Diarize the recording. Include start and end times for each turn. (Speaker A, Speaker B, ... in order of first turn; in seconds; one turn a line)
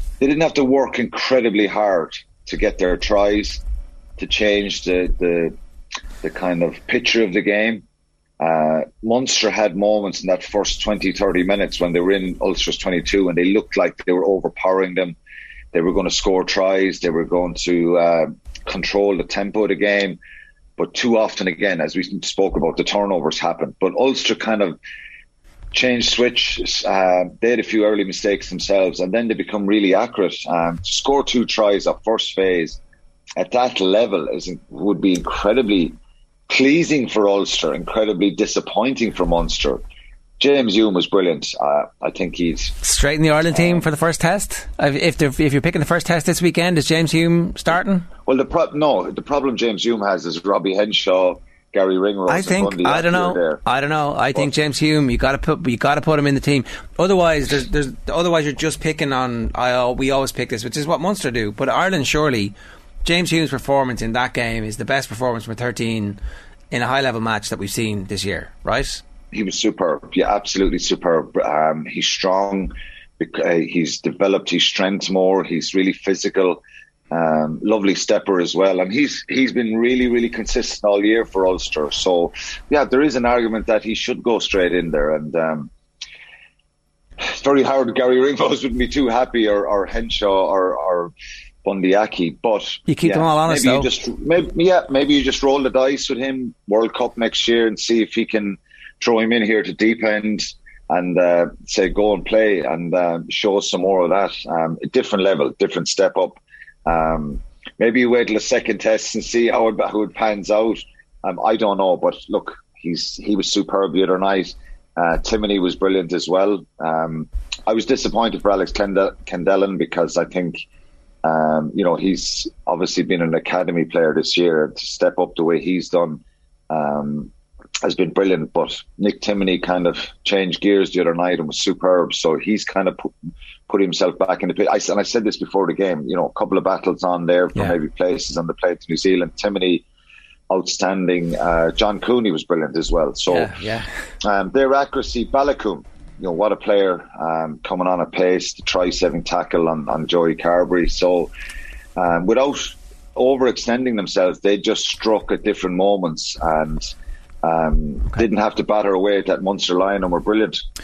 Speaker A: 0.2-3.6
Speaker A: 4.2-5.5
Speaker A: 6.2-7.8
Speaker A: 8.4-15.2
Speaker A: 15.7-20.2
Speaker A: 20.8-24.8
Speaker A: 25.7-32.8
Speaker A: 33.4-36.0
Speaker A: 36.5-39.8
Speaker A: 40.4-42.8
Speaker B: 42.8-48.1
Speaker A: 43.5-43.9
Speaker A: 48.2-53.6
Speaker B: 52.3-66.2
Speaker B: 66.7-69.0
Speaker A: 69.3-85.7
Speaker A: 87.2-91.1
Speaker A: 91.6-120.6
Speaker B: 92.9-93.9
Speaker A: 121.2-127.3
Speaker A: 127.8-133.1
Speaker A: 133.7-139.8
Speaker A: 140.5-143.5
Speaker B: 143.3-143.9
Speaker A: 144.2-151.3
Speaker A: 151.9-156.9
Speaker A: 157.4-160.6